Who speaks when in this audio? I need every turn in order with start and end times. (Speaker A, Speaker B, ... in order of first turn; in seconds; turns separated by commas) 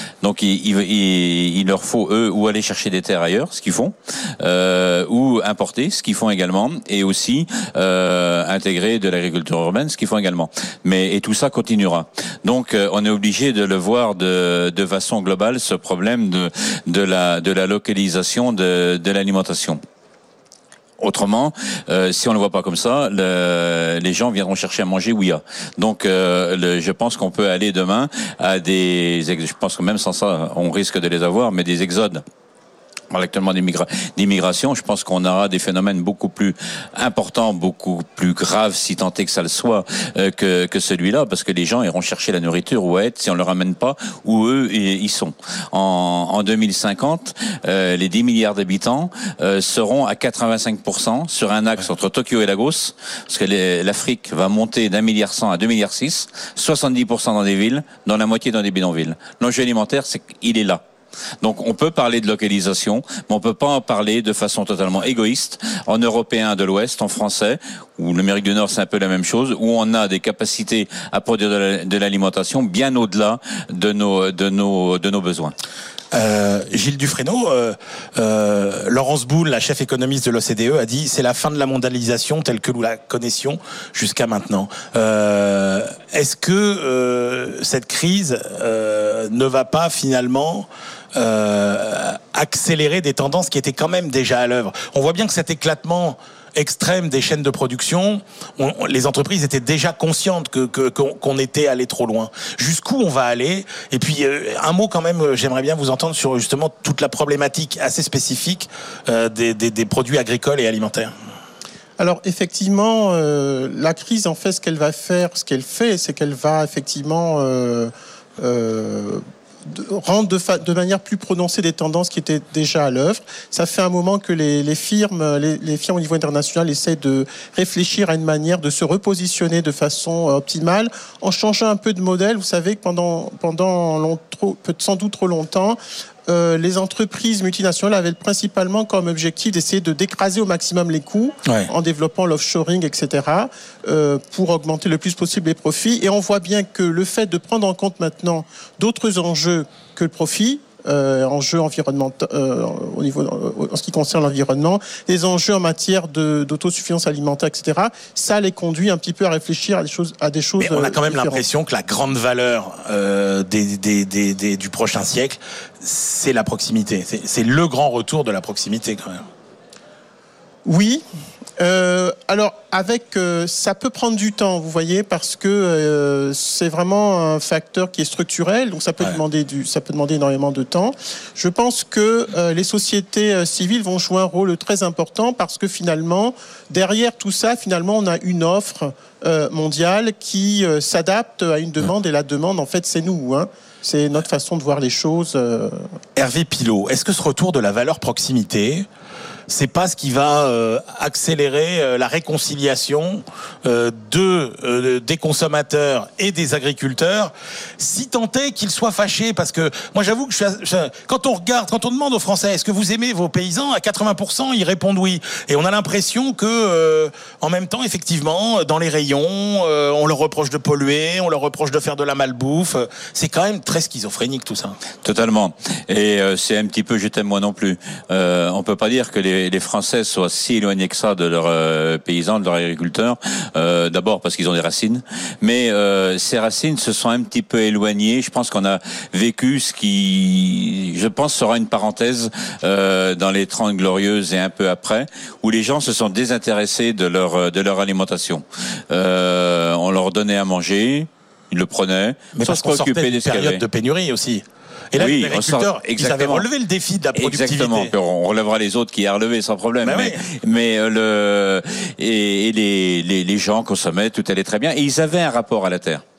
Speaker A: 0.2-19.8, Speaker A: 21.0-32.2, Speaker A: 33.1-60.8, Speaker A: 61.4-75.5, Speaker B: 76.1-111.1, Speaker C: 112.0-161.4, Speaker B: 160.6-169.2, Speaker C: 170.7-171.0, Speaker C: 171.6-195.8, Speaker B: 196.2-198.9, Speaker B: 199.5-224.8, Speaker A: 225.0-253.6, Speaker B: 252.3-257.9, Speaker A: 255.0-256.5, Speaker A: 257.1-266.0, Speaker B: 259.8-260.2